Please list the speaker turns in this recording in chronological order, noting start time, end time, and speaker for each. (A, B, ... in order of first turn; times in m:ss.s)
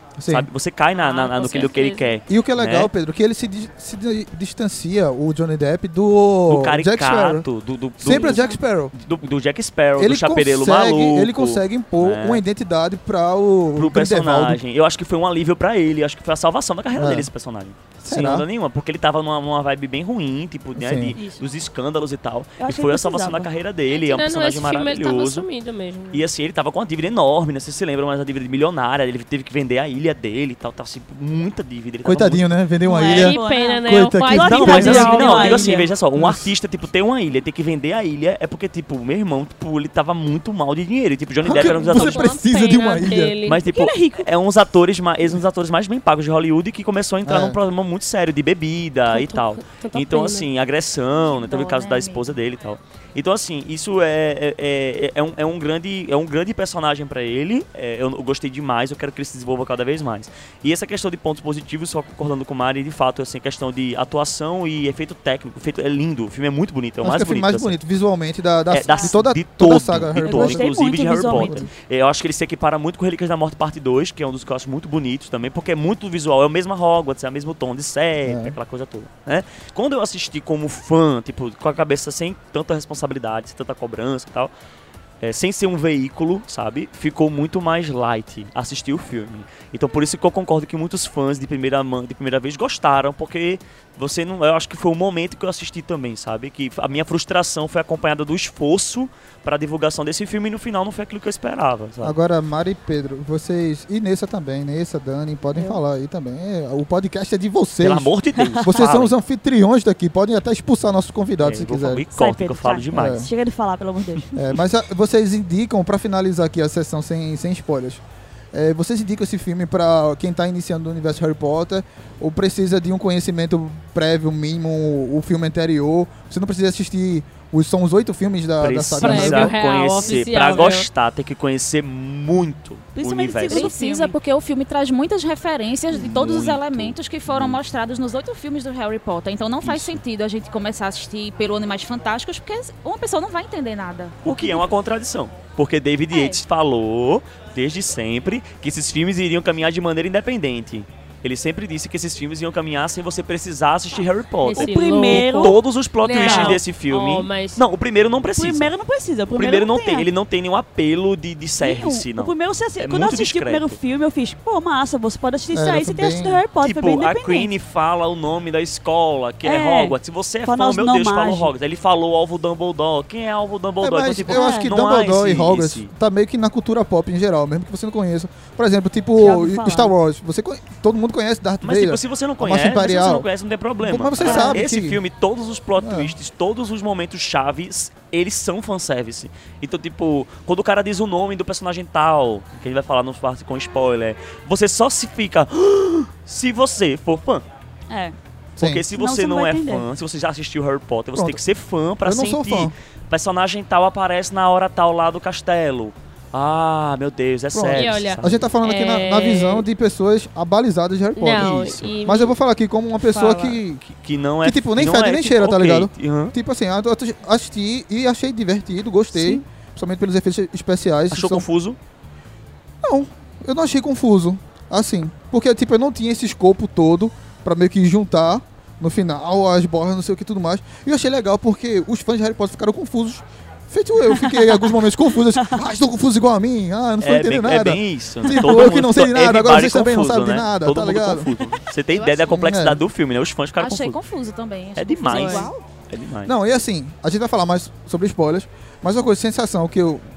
0:00.2-0:00.5 A
0:00.3-0:02.9 B
0:01.0-0:02.1 C
0:02.3-0:07.5 A
0:06.5-0:12.4 B
0:08.0-0:08.9 A
0:10.0-0:14.6 A
0:13.8-0:25.5 B
0:17.0-0:17.3 A
0:18.0-0:18.4 A
0:20.8-0:21.2 A
0:21.2-0:21.4 D
0:22.6-0:23.5 D
0:23.9-0:26.2 C
0:26.1-0:32.4 B
0:32.0-0:35.4 A
0:32.8-0:35.9 D
0:33.1-0:35.7 C
0:34.4-0:42.3 B
0:36.1-0:36.5 A
0:41.4-0:43.4 A
0:41.7-0:42.3 D
0:41.8-0:43.6 C
0:43.4-1:07.8 B
0:43.7-0:44.3 D
0:47.2-0:47.6 A
0:49.1-0:50.5 C
0:51.3-0:52.0 E
1:07.0-1:11.7 A
1:08.7-1:24.5 B
1:10.2-1:11.6 D
1:18.2-1:18.6 A
1:25.2-1:42.2 B
1:42.0-1:48.1 A
1:47.8-1:49.1 B
1:48.6-1:52.0 A
1:51.4-1:53.3 B
1:52.1-1:54.4 D
1:52.9-1:53.3 A
1:54.4-2:09.6 A
2:08.6-2:13.7 B
2:09.0-2:10.9 C
2:10.0-2:10.7 D
2:13.0-2:14.2 D
2:13.5-2:24.3 E
2:15.9-2:17.6 B
2:19.6-2:20.0 B
2:24.2-2:38.7 B
2:34.4-2:37.6 C
2:34.5-2:35.6 D
2:36.1-2:36.6 D
2:38.4-2:40.1 D
2:39.3-2:43.8 B
2:41.6-2:47.5 D
2:45.5-2:46.4 A
2:46.6-2:55.9 B
2:49.4-2:50.0 D
2:50.5-2:51.5 D
2:53.8-3:03.3 A
2:54.3-2:54.7 D
2:59.2-2:59.9 D
3:01.6-3:17.4 B
3:03.8-3:05.0 A
3:04.2-3:04.6 D
3:05.8-3:06.1 A
3:17.9-3:18.2 D
3:18.6-3:18.8 A
3:18.6-3:28.5 B
3:18.9-3:19.8 D
3:21.1-3:21.4 A
3:22.0-3:22.7 A
3:27.5-3:33.8 A
3:27.8-3:29.7 C
3:31.2-3:32.4 C
3:31.4-3:31.9 B
3:33.0-3:33.6 C
3:33.9-3:36.4 B
3:34.4-3:41.5 A
3:41.1-3:41.8 B
3:42.8-4:01.3 A
3:54.3-3:54.6 D
3:57.0-4:04.0 B
4:01.9-4:02.4 E
4:02.3-4:02.8 A
4:03.6-4:05.6 E
4:04.8-4:06.3 B
4:05.0-4:05.5 D
4:06.2-4:10.0 A